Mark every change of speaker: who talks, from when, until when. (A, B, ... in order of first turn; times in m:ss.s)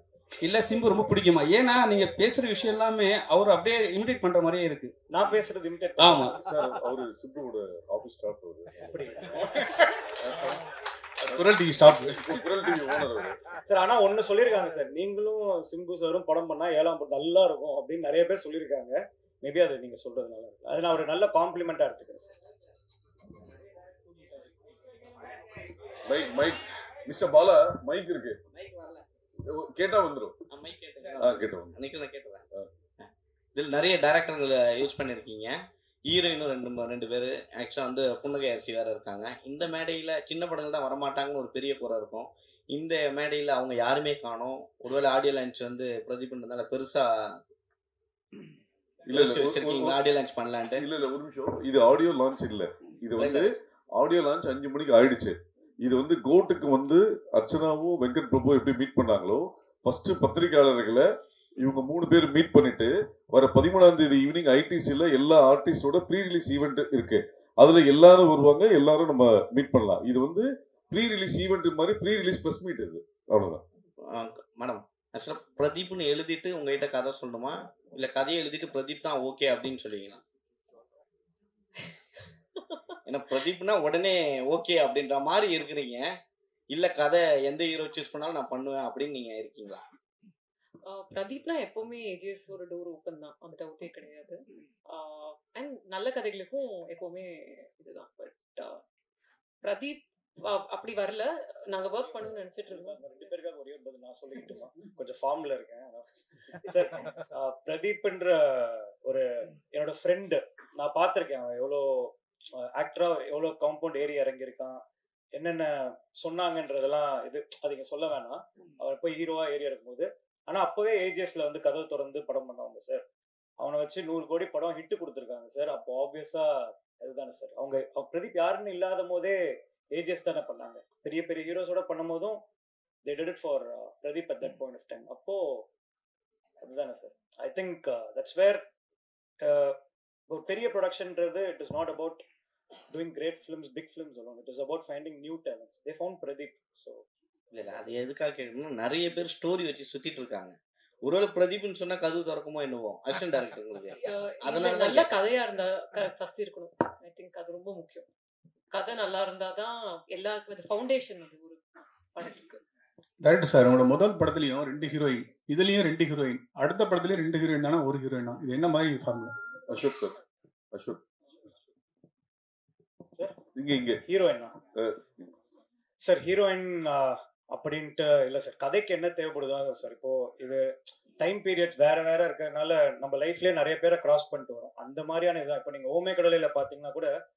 0:00.4-0:04.9 A
0:05.1-0:06.4 B
0:06.0-0:06.3 A
0:06.4-0:09.1 C
0:08.8-0:09.8 B
0:10.2-0:10.5 C
0:11.3-0:13.4 C
0:11.6-0:12.2 D
0:13.7-0:22.4 B
0:26.1-0:28.4 C
0:28.5-0:29.0 E
0:29.5-0:30.4 C
0:30.5-0:32.4 E
0:31.2-0:31.8 C
0:33.0-0:35.6 E
0:36.1-0:47.4 E
0:49.1-0:50.0 C
0:49.1-0:50.9 E
0:50.8-1:01.0 C
0:53.2-0:53.5 E
1:01.6-1:13.6 C
1:14.0-1:20.2 E
1:23.1-1:26.1 E
1:26.7-1:29.8 E
1:30.9-1:34.4 F
1:34.9-1:38.8 F
1:39.6-1:43.2 F
1:41.9-1:54.8 B
1:55.3-2:03.0 B
2:03.6-2:09.4 B
2:10.0-2:12.4 B
2:13.0-2:15.6 B
2:16.6-2:18.6 B
2:19.4-2:19.8 B
2:20.3-2:22.2 B
2:22.9-2:27.0 B
2:27.5-2:35.1 E
2:34.0-2:38.1 F
2:38.7-2:41.6 F
2:42.1-2:42.6 F
2:43.2-2:49.3 D
2:49.7-2:50.2 C
2:50.7-2:51.0 C
2:53.6-2:54.0 C
2:54.1-2:54.5 B
2:54.8-2:55.2 C
2:56.0-3:00.7 B
3:01.2-3:07.1 B